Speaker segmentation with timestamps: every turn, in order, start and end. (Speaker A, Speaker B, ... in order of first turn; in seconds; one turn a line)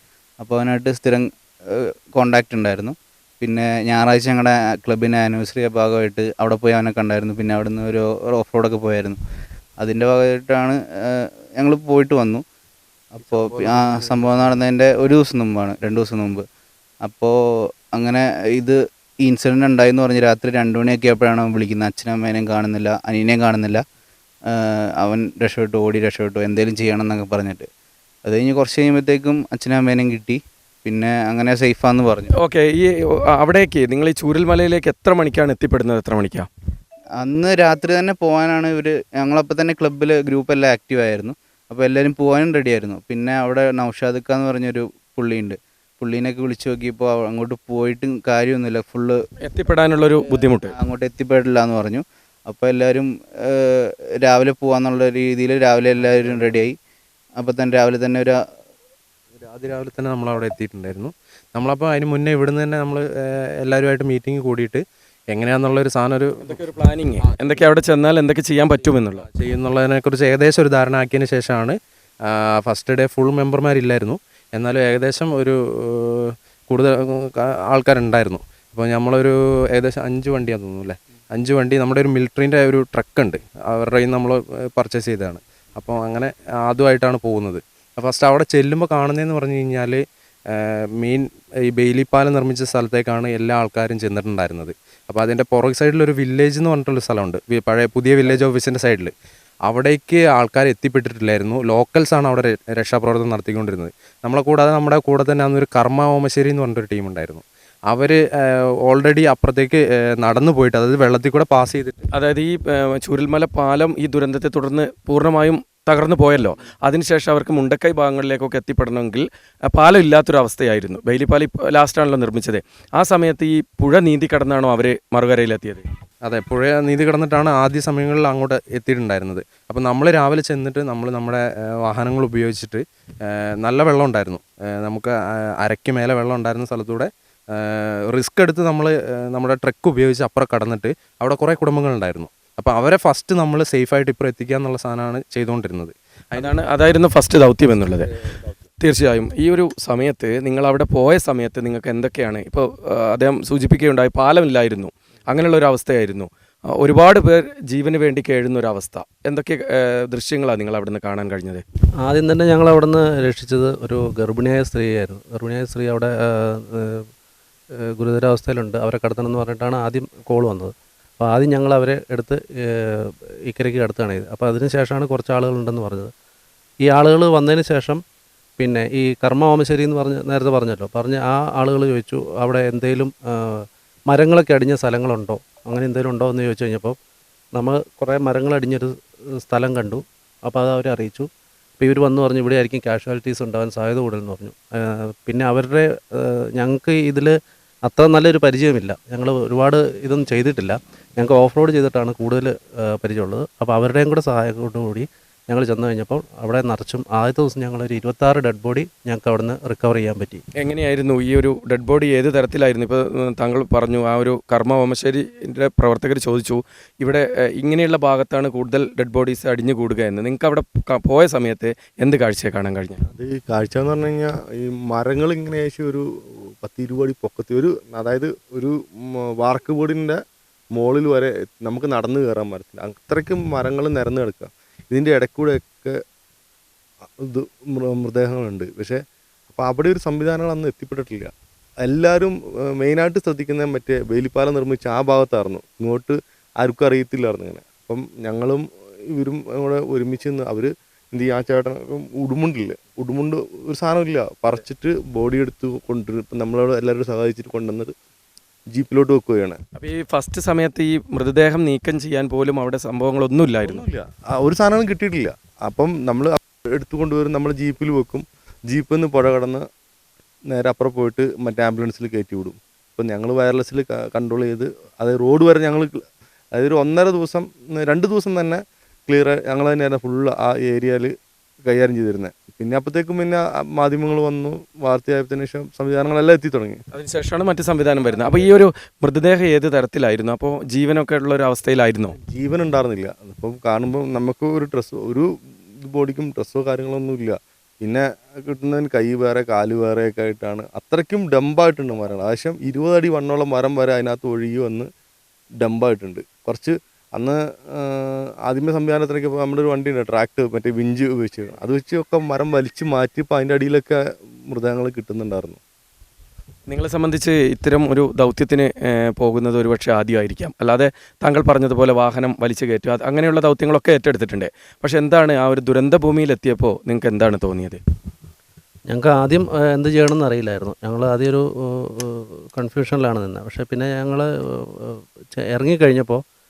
Speaker A: 0.4-9.2
Speaker A: 9.8-12.4
Speaker A: 13.2-16.4
Speaker B: 13.6-14.2
Speaker A: 17.1-17.3
Speaker A: 17.9-23.8
Speaker A: 24.5-27.7
Speaker A: 28.2-32.4
Speaker B: 32.4-36.5
Speaker A: 37.2-49.2
Speaker B: 49.4-50.7
Speaker A: 50.7-56.7
Speaker C: 56.2-56.4
Speaker A: 57.4-58.4
Speaker C: 59.4-66.6
Speaker B: 66.4-69.3
Speaker C: 69.3-99.1
Speaker C: 99.7-112.0
Speaker B: 112.1-125.8
Speaker C: 126.2-146.6
Speaker B: 146.3-148.1
Speaker B: 148.8-161.6
Speaker D: 162.0-167.1
Speaker D: 167.8-176.1
Speaker D: 176.8-178.0
Speaker D: 178.6-186.9
Speaker D: 187.5-191.3
Speaker D: 191.8-197.3
Speaker D: 197.8-210.4
Speaker B: 210.6-223.0
Speaker E: 223.1-230.2
Speaker E: 230.7-236.0
Speaker E: 237.2-241.3
Speaker E: 241.8-257.9
Speaker E: 258.7-259.6
Speaker B: 259.8-263.8
Speaker E: 263.6-269.6
Speaker E: 270.5-276.0
Speaker E: 276.5-281.1
Speaker E: 281.6-286.8
Speaker B: 286.9-292.2
Speaker E: 292.2-295.3
Speaker E: 295.8-304.9
Speaker E: 305.6-315.6
Speaker B: 316.7-327.8
Speaker D: 328.9-336.2